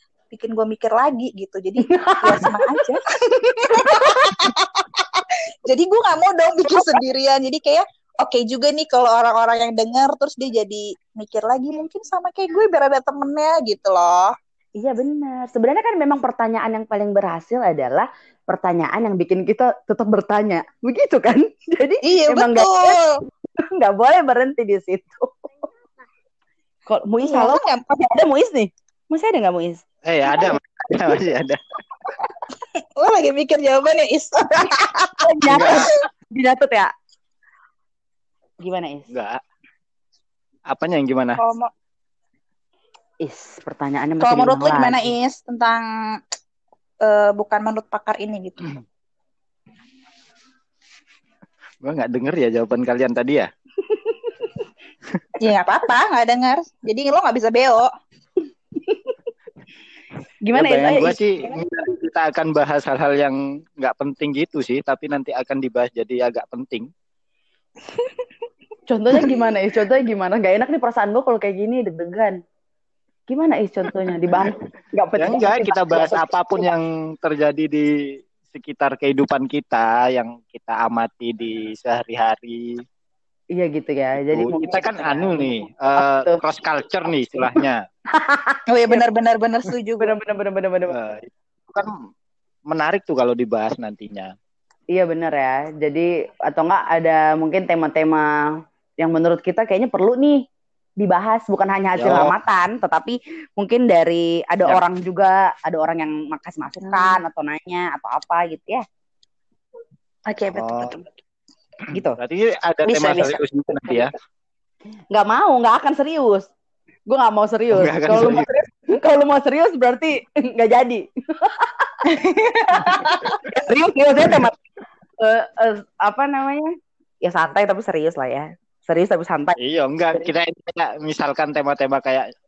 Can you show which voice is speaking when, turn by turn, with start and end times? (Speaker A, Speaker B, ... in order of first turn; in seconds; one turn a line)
Speaker A: 0.3-14.3
Speaker B: 1.8-2.8
Speaker B: 3.7-4.4
Speaker B: 14.8-23.0
Speaker A: 22.0-23.1
Speaker B: 23.6-25.4
Speaker B: 26.9-29.8
Speaker A: 27.3-27.9
Speaker C: 30.1-31.8
Speaker A: 32.8-35.9
Speaker B: 35.2-36.9
Speaker C: 35.5-35.9
Speaker B: 38.6-39.1
Speaker C: 39.1-39.4
Speaker C: 40.7-41.4
Speaker A: 41.4-41.7
Speaker B: 43.2-45.1
Speaker A: 44.2-46.2
Speaker A: 47.0-48.8
Speaker C: 51.8-53.5
Speaker B: 53.9-54.5
Speaker A: 55.4-57.9
Speaker B: 58.8-59.2
Speaker B: 60.5-61.2
Speaker C: 60.5-66.9
Speaker A: 67.9-68.2
Speaker B: 68.9-72.4
Speaker B: 73.3-76.6
Speaker C: 75.2-77.9
Speaker C: 78.5-82.8
Speaker B: 83.5-85.4
Speaker C: 84.2-87.8
Speaker B: 86.0-86.4
Speaker B: 88.1-89.0
Speaker A: 88.7-90.2
Speaker B: 90.0-91.0
Speaker C: 90.9-92.0
Speaker C: 92.7-94.3
Speaker B: 94.9-100.4
Speaker B: 101.0-108.8
Speaker C: 102.0-102.3
Speaker A: 106.8-107.2
Speaker A: 110.3-111.0
Speaker C: 110.5-111.0
Speaker B: 111.9-112.2
Speaker C: 112.2-114.1
Speaker A: 112.9-113.4
Speaker B: 115.1-116.5
Speaker B: 117.1-122.0
Speaker C: 117.7-118.5
Speaker A: 122.0-123.3
Speaker B: 122.9-124.5
Speaker B: 125.2-126.7
Speaker B: 127.2-129.6
Speaker C: 129.6-132.3